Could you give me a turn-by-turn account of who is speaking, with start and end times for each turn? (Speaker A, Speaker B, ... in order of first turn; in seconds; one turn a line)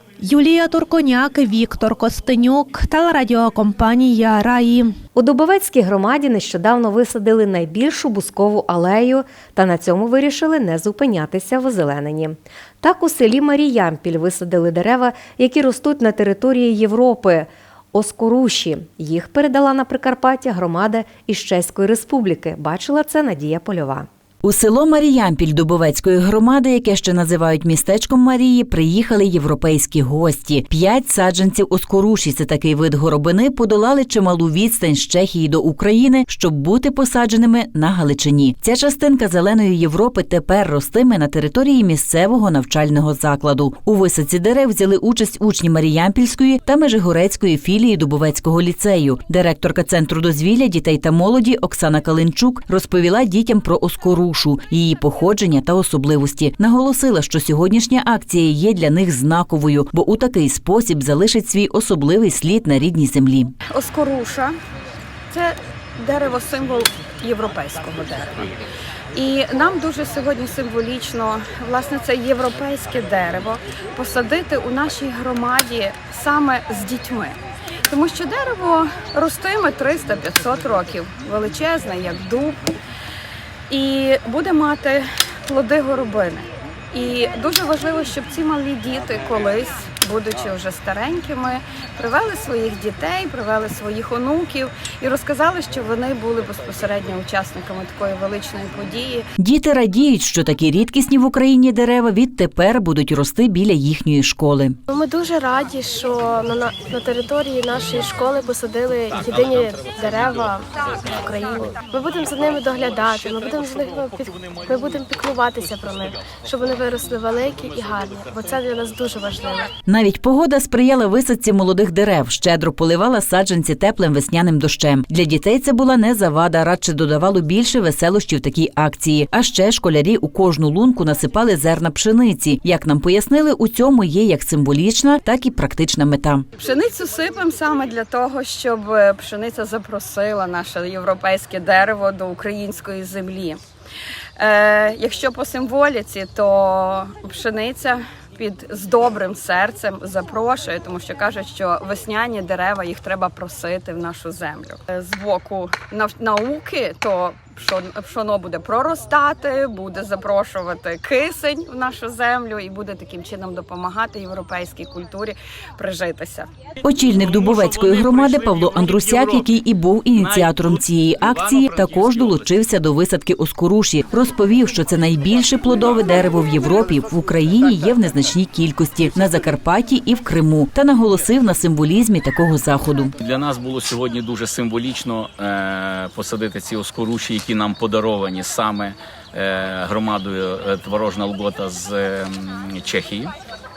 Speaker A: 0.2-4.9
Speaker B: 5.2-24.1
Speaker C: 24.4-63.5
Speaker D: 63.7-64.5
Speaker D: 65.3-68.6
Speaker D: 69.2-77.4
Speaker D: 77.9-82.6
Speaker D: 83.7-99.3
Speaker C: 99.4-104.8
Speaker E: 104.9-119.7
Speaker C: 119.9-136.4
Speaker D: 136.6-143.6
Speaker D: 144.4-166.5
Speaker C: 166.8-183.1
Speaker F: 167.1-169.5
Speaker F: 170.1-172.5
Speaker F: 183.2-193.3